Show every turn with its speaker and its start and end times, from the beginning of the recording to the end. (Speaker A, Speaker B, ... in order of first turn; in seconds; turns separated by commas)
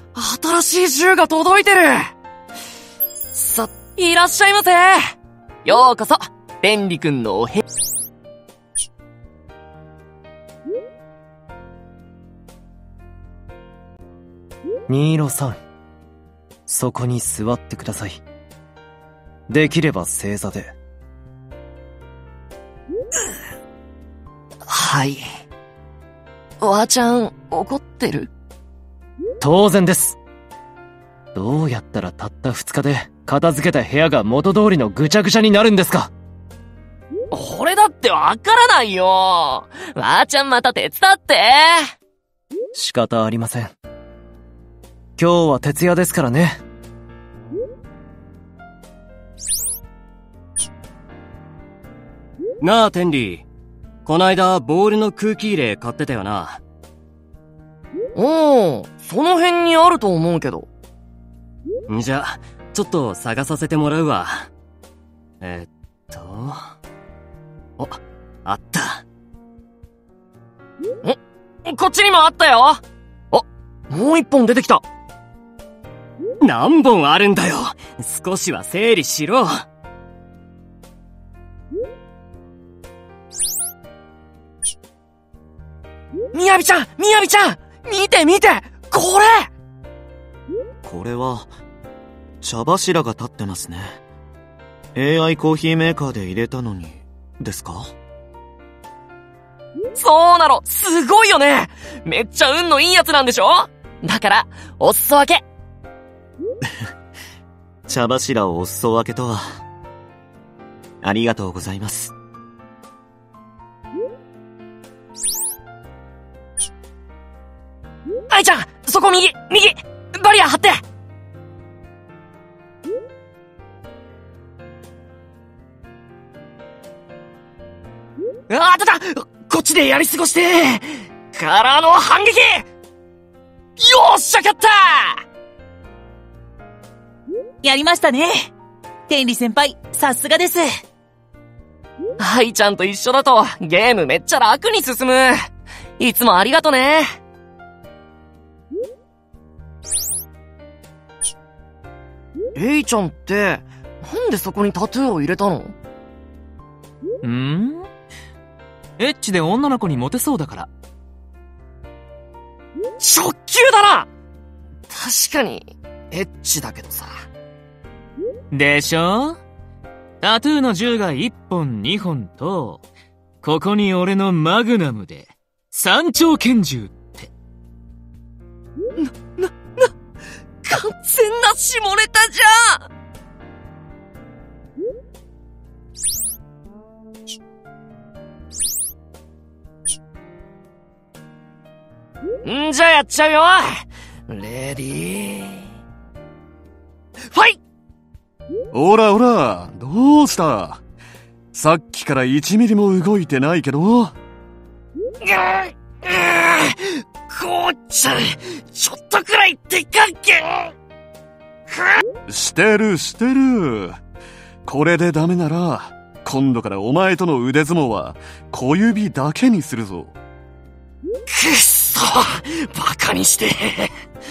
Speaker A: 0.1-2.1, Speaker A: 3.3-5.0, Speaker A: 5.7-7.6, Speaker B: 14.9-15.6, Speaker B: 16.7-18.2, Speaker B: 19.5-20.7, Speaker A: 24.7-25.2, Speaker A: 26.6-28.3, Speaker B: 29.4-30.2, Speaker B: 31.3-36.1, Speaker A: 37.3-41.9, Speaker B: 42.8-43.7, Speaker B: 45.2-46.6, Speaker C: 52.6-53.5, Speaker C: 54.1-56.6, Speaker A: 58.1-60.7, Speaker C: 61.9-64.5, Speaker C: 65.4-66.6, Speaker C: 67.8-69.0, Speaker A: 71.0-72.8, Speaker A: 73.3-74.8, Speaker C: 76.4-79.6, Speaker A: 86.3-89.5, Speaker D: 90.8-91.5, Speaker D: 92.4-94.0, Speaker D: 95.0-97.9, Speaker A: 100.0-105.4, Speaker D: 107.9-109.5, Speaker D: 111.0-112.1, Speaker A: 118.3-120.8, Speaker A: 128.5-132.7, Speaker A: 133.8-135.2, Speaker E: 137.6-138.5, Speaker E: 139.1-140.8, Speaker A: 142.2-145.4, Speaker A: 146.0-147.1, Speaker A: 152.6-155.8, Speaker F: 157.2-157.9, Speaker F: 159.0-160.7, Speaker A: 163.0-164.1, Speaker A: 164.9-167.1, Speaker F: 168.5-169.4, Speaker F: 170.2-172.8, Speaker F: 173.4-177.3, Speaker A: 179.0-179.9, Speaker A: 180.6-182.9, Speaker A: 192.4-195.7, Speaker A: 197.3-197.6, Speaker G: 198.7-200.8, Speaker G: 201.5-204.1, Speaker A: 205.2-210.7, Speaker A: 211.7-212.0, Speaker G: 212.3-214.0, Speaker G: 214.7-220.2, Speaker A: 221.3-223.9